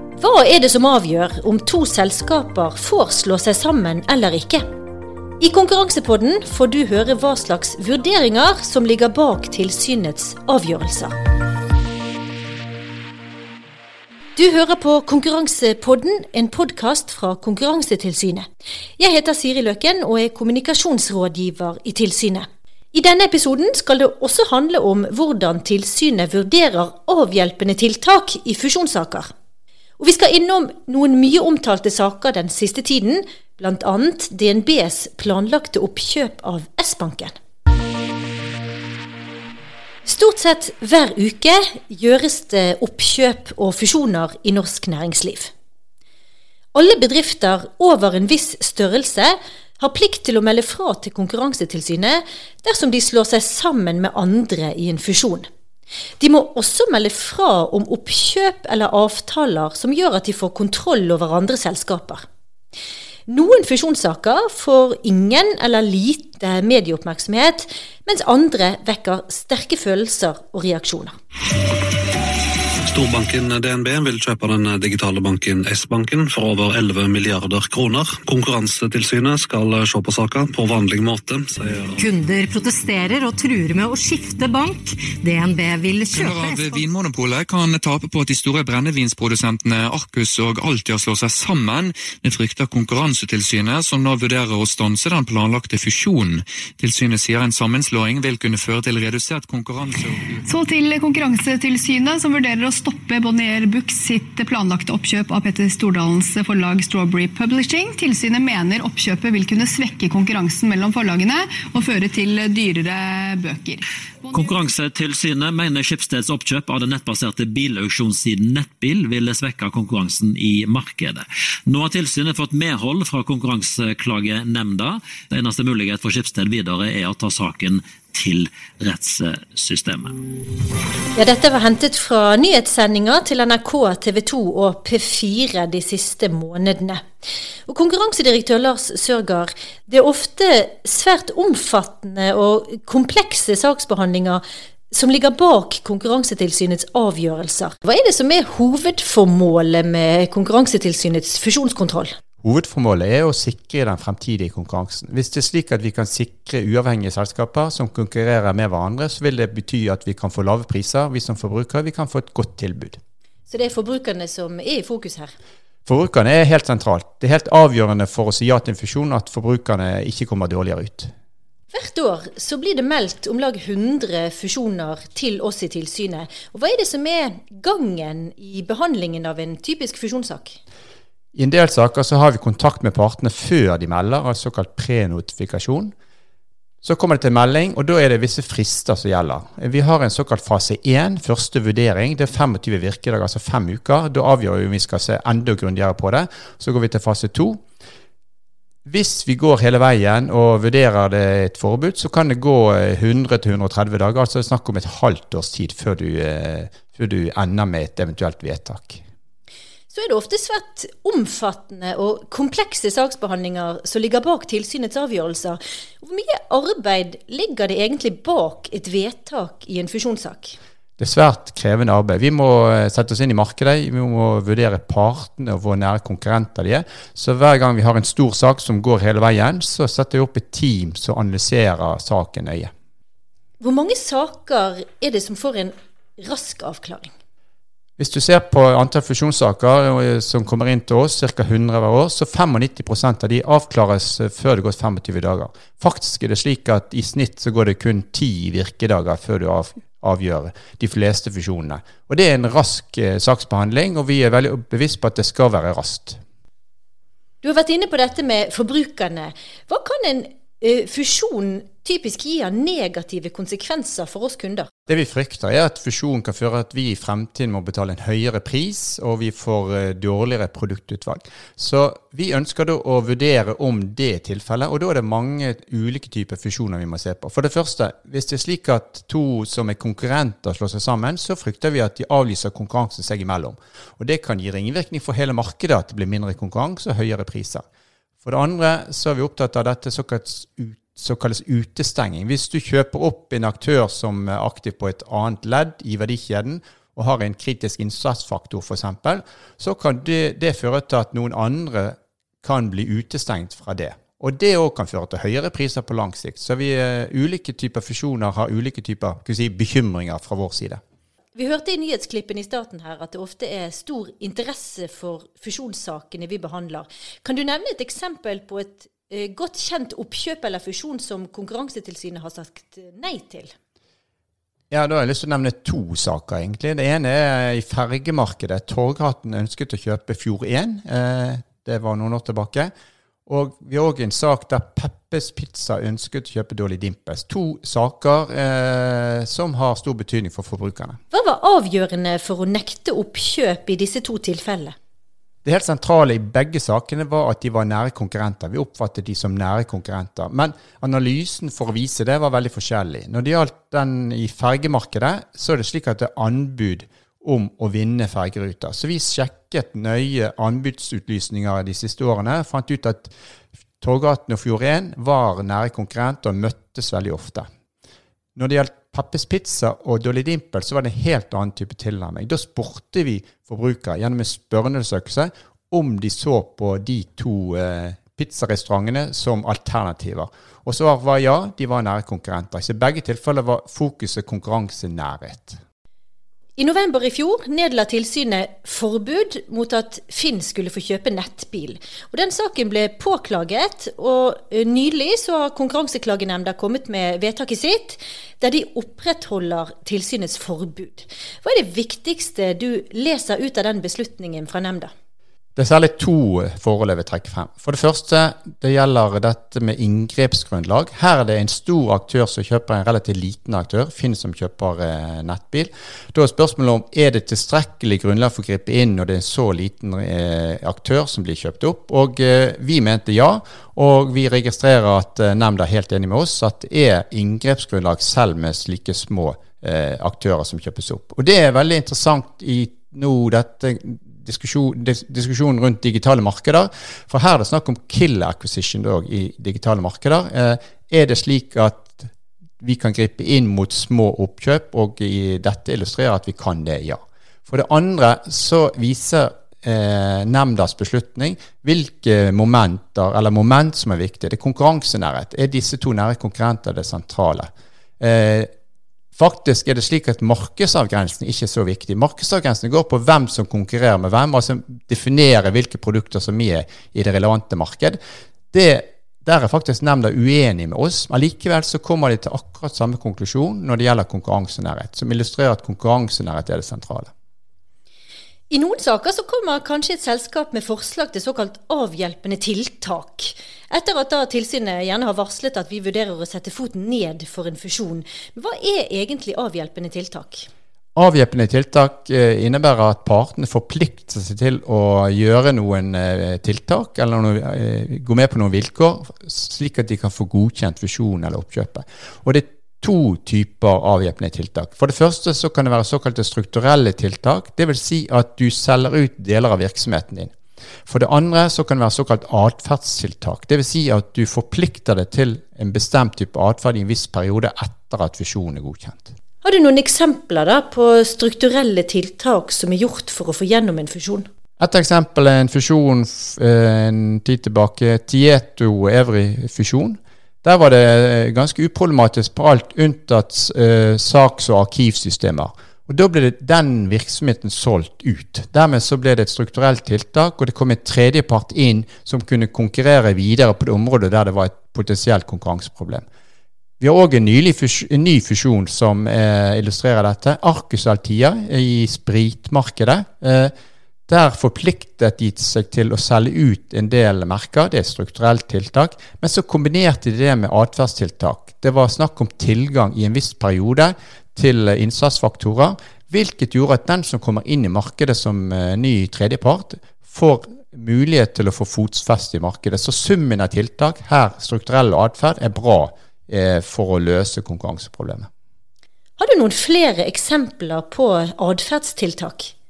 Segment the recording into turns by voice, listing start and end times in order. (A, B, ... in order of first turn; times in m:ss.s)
0:00.2-0:04.6 A
0:05.4-0:11.2 A
0:14.4-0:18.5 A
0:19.0-0:29.3 A
0:30.0-0:37.4 A
0:40.0-0:45.5 A
0:46.7-0:55.5 A
0:56.2-1:02.2 A
1:03.3-1:11.2 A
1:12.8-1:22.0 B
1:22.0-1:26.9 C
1:26.1-1:40.4 D
1:40.5-1:54.6 E
1:54.3-2:10.2 F
2:11.2-2:17.0 A
2:17.7-2:32.2 A
2:32.4-2:43.0 G
2:43.5-2:45.3 A
2:45.9-2:51.1 G
2:51.7-3:00.6 A
3:01.4-3:05.9 G
3:06.8-3:17.6 G
3:18.8-3:29.0 G
3:29.9-3:40.6 A
3:41.0-3:52.7 G
3:53.6-3:57.1 A
3:58.0-4:16.2 G
4:17.4-4:24.7 A
4:24.9-4:47.6 G
4:48.2-5:10.8 G
5:11.4-5:23.5 A
5:24.7-5:32.7 G
5:33.3-5:41.0 G
5:41.1-5:44.8 A
5:45.4-6:03.1 G
6:03.8-6:07.5 G
6:08.4-6:25.6 G
6:26.6-6:44.9 A
6:45.6-7:38.5 G
7:39.2-7:48.0 G
7:48.5-7:57.1 G
7:58.5-8:10.5 A
8:11.0-8:30.3 G
8:30.9-8:39.1 G
8:39.4-8:44.3 A
8:44.6-9:06.1 G
9:06.8-9:13.5 G
9:14.1-9:38.3 G
9:39.2-9:42.5 A